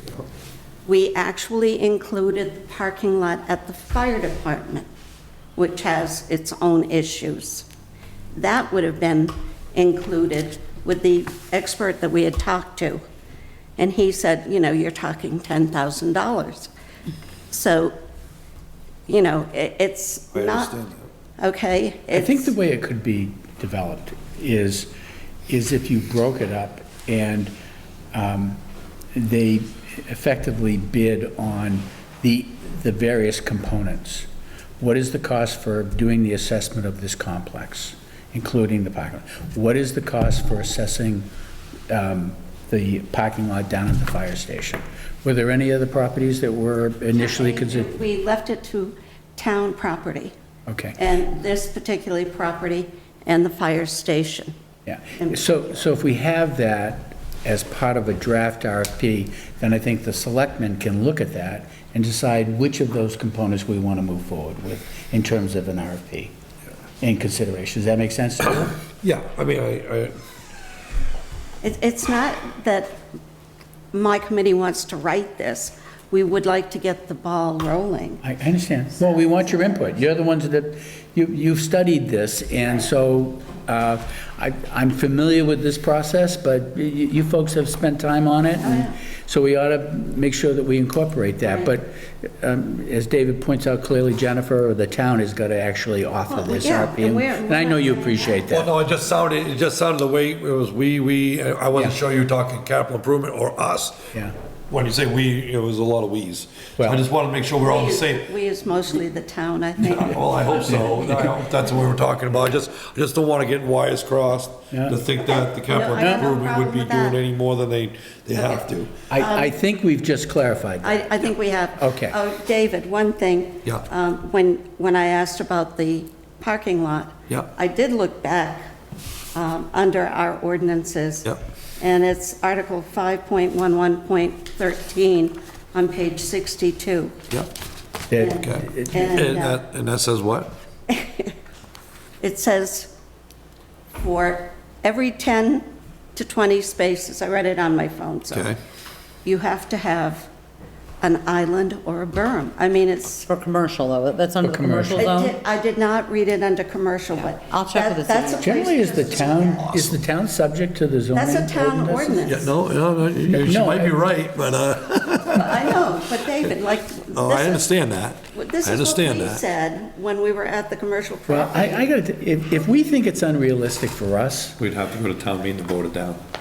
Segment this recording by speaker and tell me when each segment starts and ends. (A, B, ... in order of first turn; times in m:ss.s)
0:00.8-0:04.9 A
0:05.6-0:07.7 A
0:08.3-0:13.0 A
0:13.8-0:16.7 A
0:17.5-0:17.9 A
0:19.1-0:20.7 A
0:20.3-0:21.0 B
0:21.4-0:22.5 A
0:22.1-0:24.9 C
0:25.5-0:27.5 C
0:28.1-0:28.6 C
0:29.1-0:34.3 C
0:34.8-0:41.3 C
0:41.9-0:47.9 C
0:47.2-0:50.3 A
0:50.7-0:51.0 C
0:51.0-0:54.5 A
0:54.8-1:06.3 C
0:55.2-0:55.8 A
1:07.0-1:08.8 C
1:09.0-1:10.1 B
1:11.6-1:13.0 A
1:13.9-1:18.2 A
1:18.2-1:38.7 C
1:28.6-1:29.0 A
1:36.3-1:38.4 A
1:38.5-1:44.1 B
1:44.7-1:48.3 B
1:47.6-1:50.6 A
1:49.8-1:59.0 B
1:50.7-1:51.2 C
1:54.7-1:55.0 C
1:55.2-1:57.2 A
1:56.0-1:56.3 C
1:59.1-2:01.0 C
1:59.1-1:59.5 A
2:00.8-2:08.7 A
2:01.8-2:02.2 C
2:09.3-2:17.1 A
2:18.1-2:19.2 C
2:18.2-2:19.6 A
2:18.4-2:20.5 B
2:20.9-2:21.3 A
2:22.2-2:22.9 A
2:24.0-2:28.6 A
2:28.3-2:28.6 B
2:29.2-2:30.3 A
2:31.0-2:33.3 A
2:33.3-2:35.3 D
2:34.4-2:35.1 C
2:35.0-2:39.7 A
2:37.2-2:38.6 D
2:38.4-2:42.4 C
2:39.7-2:40.0 B
2:41.1-2:42.5 A
2:42.3-2:45.8 B
2:43.3-2:44.1 C
2:45.3-2:47.7 A
2:47.1-2:49.4 B
2:48.3-2:51.9 A
2:51.3-2:54.6 C
2:54.6-2:56.2 B